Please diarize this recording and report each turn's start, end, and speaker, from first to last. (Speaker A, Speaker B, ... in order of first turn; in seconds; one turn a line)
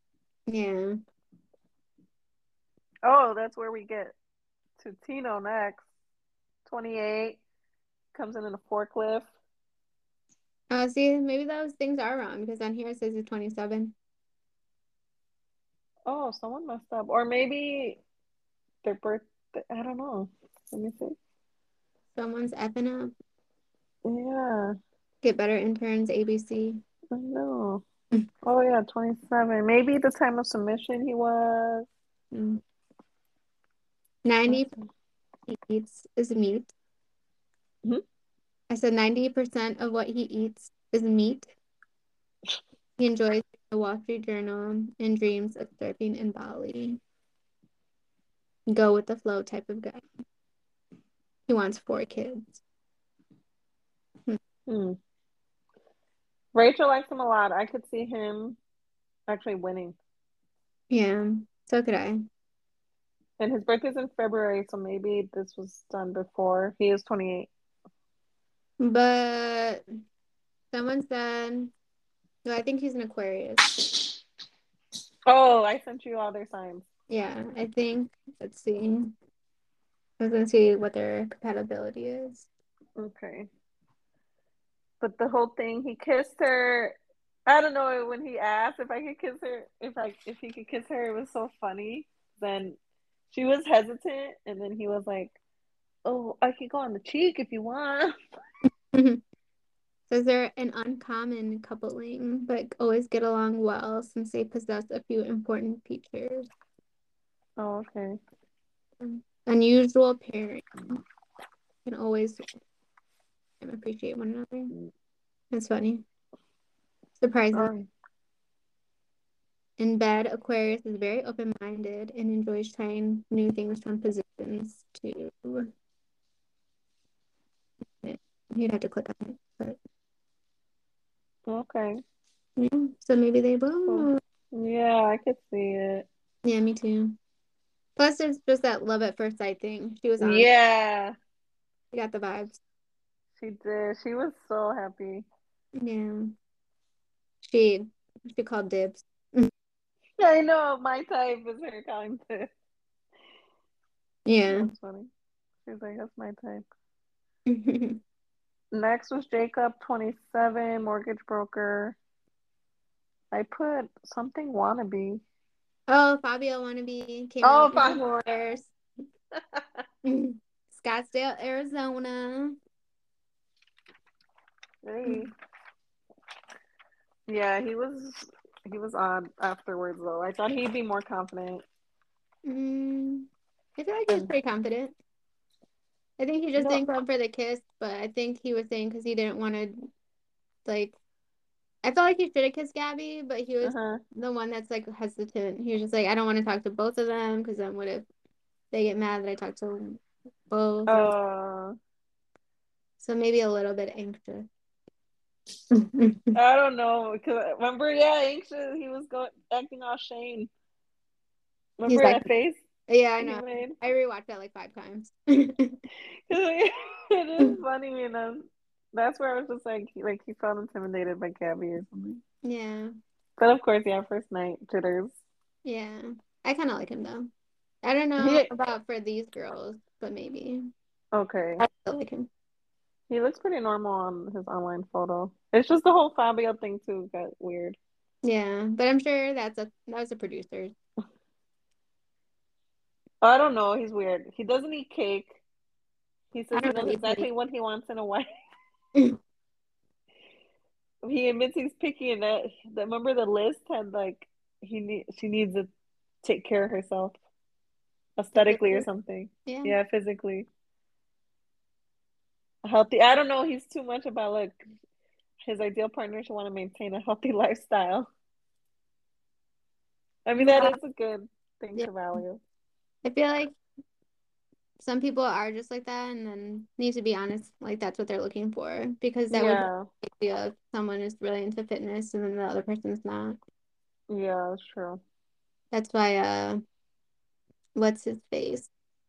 Speaker A: 0.5-0.9
Speaker B: 3.0-4.2
Speaker B: 4.8-5.9
Speaker B: 6.7-7.4
Speaker B: 8.1-9.3
Speaker A: 10.7-13.9
Speaker B: 16.1-18.0
Speaker B: 18.8-21.2
Speaker A: 22.1-23.1
Speaker B: 24.1-24.7
Speaker A: 25.2-26.8
Speaker B: 27.1-27.8
Speaker B: 28.4-31.9
Speaker A: 32.3-32.6
Speaker A: 34.2-34.7
Speaker B: 34.5-34.8
Speaker A: 35.5-36.7
Speaker A: 38.7-41.5
Speaker A: 43.0-47.0
Speaker A: 48.7-50.0
Speaker A: 51.5-52.6
Speaker B: 54.7-55.0
Speaker B: 56.5-58.6
Speaker B: 59.3-60.0
Speaker A: 60.9-62.2
Speaker B: 63.4-67.5
Speaker A: 68.8-69.8
Speaker A: 70.7-71.7
Speaker A: 72.5-73.7
Speaker B: 75.3-76.9
Speaker A: 77.1-79.1
Speaker A: 80.2-82.5
Speaker B: 83.0-83.5
Speaker B: 85.0-87.0
Speaker B: 87.5-92.8
Speaker B: 93.3-95.4
Speaker B: 96.0-98.2
Speaker A: 98.9-99.2
Speaker A: 100.1-106.5
Speaker B: 107.6-108.2
Speaker A: 109.0-111.0
Speaker A: 111.8-112.5
Speaker A: 113.6-114.7
Speaker A: 115.5-116.0
Speaker A: 117.2-117.7
Speaker B: 117.5-117.9
Speaker A: 119.8-125.7
Speaker A: 128.0-129.8
Speaker B: 131.5-132.0
Speaker A: 132.6-134.2
Speaker B: 133.9-136.1
Speaker A: 136.4-137.2
Speaker A: 138.0-140.5
Speaker B: 140.2-141.1
Speaker A: 141.9-142.6
Speaker B: 143.4-145.3
Speaker A: 145.8-146.3
Speaker A: 147.4-149.5
Speaker B: 150.2-152.5
Speaker A: 154.3-154.7
Speaker B: 154.5-155.1
Speaker B: 155.6-156.7
Speaker A: 157.5-158.0
Speaker B: 158.7-162.0
Speaker B: 163.3-165.2
Speaker A: 165.9-168.7
Speaker B: 167.4-168.3
Speaker A: 170.1-172.6
Speaker B: 174.8-175.3
Speaker B: 177.3-181.6
Speaker A: 182.4-184.9
Speaker A: 186.2-189.9
Speaker B: 186.6-186.8
Speaker A: 190.7-191.0
Speaker A: 191.8-198.1
Speaker B: 193.6-194.0
Speaker A: 198.7-201.2
Speaker B: 200.9-201.8
Speaker A: 203.0-204.5
Speaker A: 205.7-206.4
Speaker B: 206.3-210.5
Speaker B: 211.8-212.6
Speaker A: 211.9-212.3
Speaker A: 212.9-215.8
Speaker B: 213.2-213.8
Speaker B: 216.3-222.2
Speaker A: 222.4-222.9
Speaker B: 223.4-225.1
Speaker A: 225.7-227.3
Speaker A: 227.8-230.7
Speaker B: 228.2-228.5
Speaker B: 231.1-231.6
Speaker A: 231.6-232.3
Speaker B: 233.1-237.8
Speaker A: 238.2-240.7
Speaker B: 243.2-245.4
Speaker B: 246.3-248.3
Speaker A: 246.5-247.3
Speaker B: 251.0-255.7
Speaker B: 256.2-257.1
Speaker B: 258.2-260.5
Speaker A: 258.4-258.9
Speaker A: 259.5-259.8
Speaker B: 262.6-264.6
Speaker B: 265.4-268.1
Speaker B: 270.3-272.4
Speaker A: 270.4-270.8
Speaker A: 273.0-273.6
Speaker A: 274.8-283.4
Speaker B: 279.3-279.9
Speaker B: 284.1-285.0
Speaker A: 285.7-286.6
Speaker A: 287.8-288.7